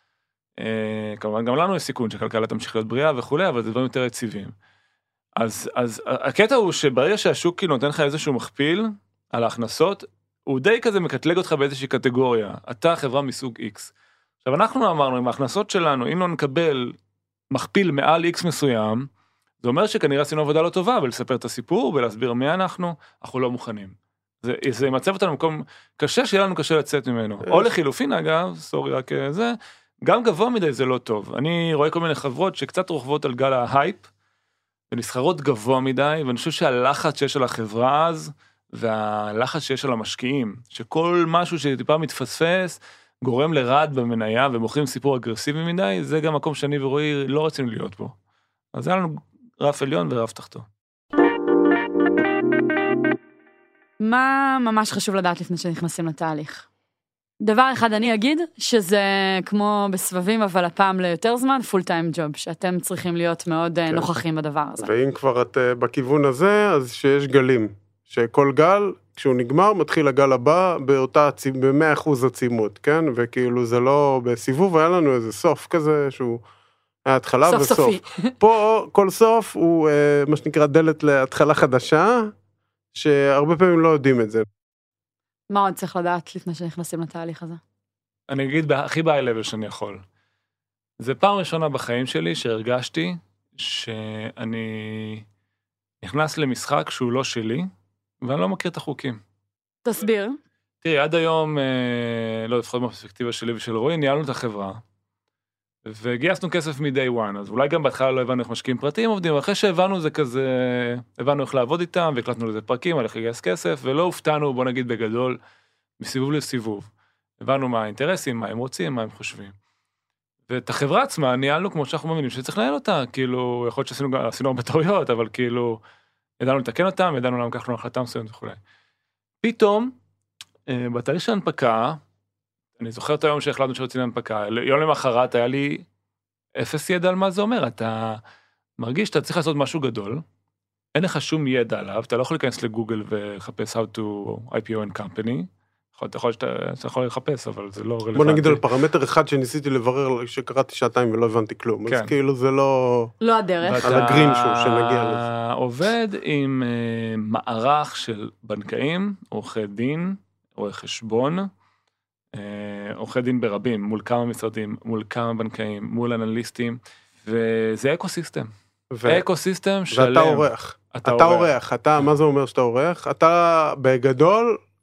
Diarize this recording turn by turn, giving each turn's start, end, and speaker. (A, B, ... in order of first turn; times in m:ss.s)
0:00.6-0:04.5 A
0:05.4-0:13.9 A
0:14.4-0:17.0 A
0:17.5-0:19.1 A
0:19.6-0:34.1 A
0:34.9-0:48.1 A
0:48.7-0:50.7 A
0:54.0-0:56.7 B
0:57.4-1:04.9 B
1:04.8-1:16.4 C
1:17.1-1:22.3 C
1:17.5-1:18.3 B
1:22.9-1:24.5 C
1:25.5-1:27.6 B
1:28.3-1:30.0 A
1:31.0-1:35.2 A
1:36.0-1:37.7 A
1:38.2-1:39.2 A
1:39.8-1:40.4 B
1:40.8-1:44.8 A
1:45.8-1:55.4 A
1:56.0-1:56.9 A
1:57.4-1:59.6 A
2:00.5-2:05.8 A
2:06.4-2:08.6 A
2:09.4-2:09.9 A
2:10.7-2:12.0 A
2:12.8-2:15.8 A
2:16.6-2:18.2 A
2:18.8-2:20.2 A
2:21.0-2:28.6 A
2:28.2-2:33.1 C
2:31.9-2:32.1 A
2:33.2-2:33.9 B
2:33.6-2:41.5 A
2:33.8-2:35.2 C
2:42.3-2:48.5 A
2:48.9-2:49.2 C
2:49.1-2:51.5 A
2:49.9-2:54.6 C